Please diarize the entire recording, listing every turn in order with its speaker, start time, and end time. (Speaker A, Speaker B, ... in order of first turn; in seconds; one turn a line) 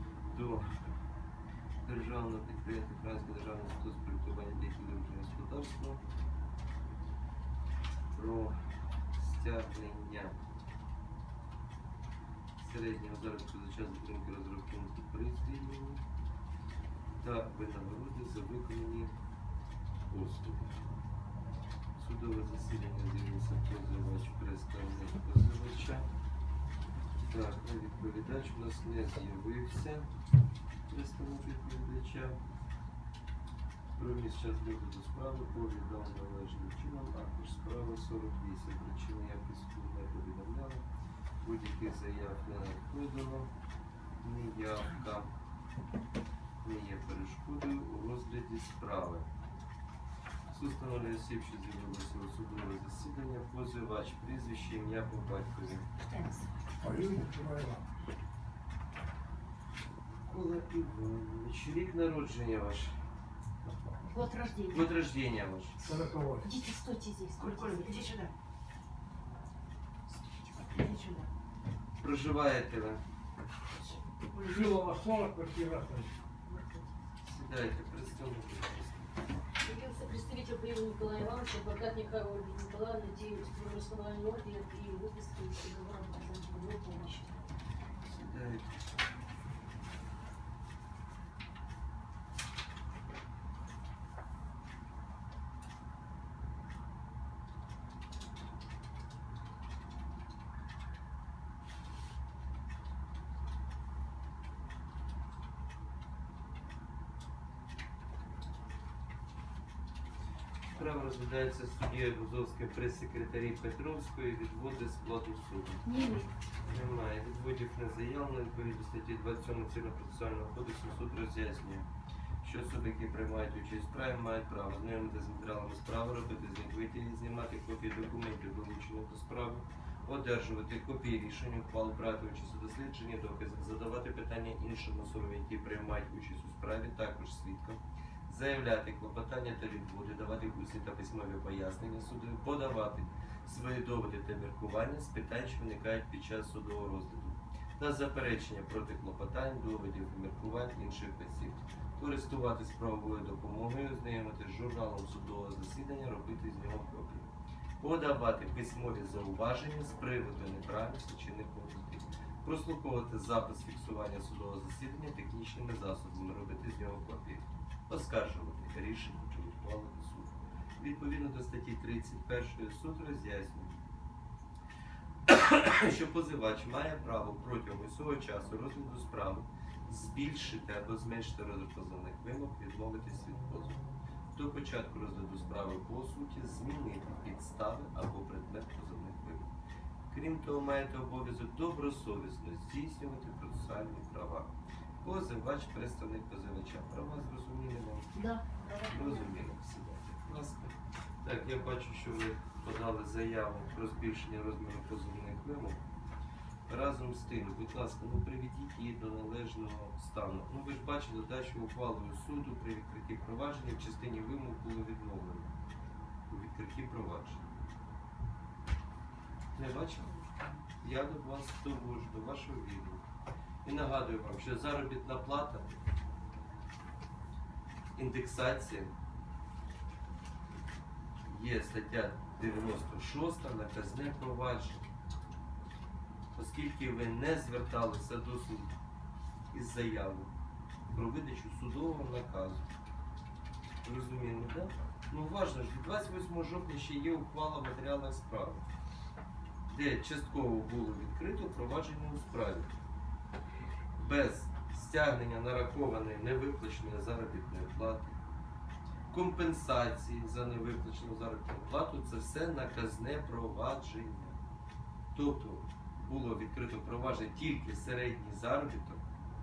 Speaker A: 0.3-0.7
Speaker A: 1.8-6.0
Speaker A: 8.1-8.6
Speaker A: 9.1-10.4
Speaker A: 12.6-16.0
Speaker A: 17.2-19.1
Speaker A: 20.1-20.8
Speaker A: 22.0-26.1
Speaker A: 27.2-30.1
Speaker A: 30.9-32.4
Speaker A: 34.0-40.8
Speaker A: 41.4-43.5
Speaker A: 44.2-45.3
Speaker A: 46.6-49.3
Speaker A: 50.5-55.9
Speaker B: 56.0-56.5
Speaker C: 56.8-57.8
Speaker A: 60.3-63.0
Speaker B: 64.0-64.8
Speaker A: 64.7-65.9
Speaker C: 65.9-66.5
Speaker B: 65.9-68.2
Speaker C: 67.5-68.1
Speaker B: 70.5-71.3
Speaker A: 72.0-73.0
Speaker B: 74.3-74.8
Speaker C: 74.4-76.1
Speaker B: 76.5-76.9
Speaker A: 77.2-79.1
Speaker B: 79.6-87.4
Speaker A: 88.0-88.7
Speaker A: 110.7-115.8
Speaker B: 115.8-116.3
Speaker A: 116.7-121.9
Speaker A: 122.4-157.3
Speaker A: 157.8-173.8
Speaker A: 175.3-189.5
Speaker A: 190.1-194.5
Speaker A: 195.0-198.2
Speaker B: 198.2-199.3
Speaker A: 198.9-205.8
Speaker A: 206.7-215.5
Speaker A: 216.3-217.4
Speaker A: 219.5-220.2
Speaker A: 220.8-223.0
Speaker A: 223.6-225.8
Speaker A: 227.9-228.9
Speaker A: 231.2-234.8
Speaker A: 236.3-238.7
Speaker A: 239.5-240.3
Speaker A: 240.9-242.7
Speaker A: 243.8-248.6
Speaker A: 249.7-252.7
Speaker A: 253.9-258.1
Speaker A: 259.1-264.4
Speaker A: 265.1-269.0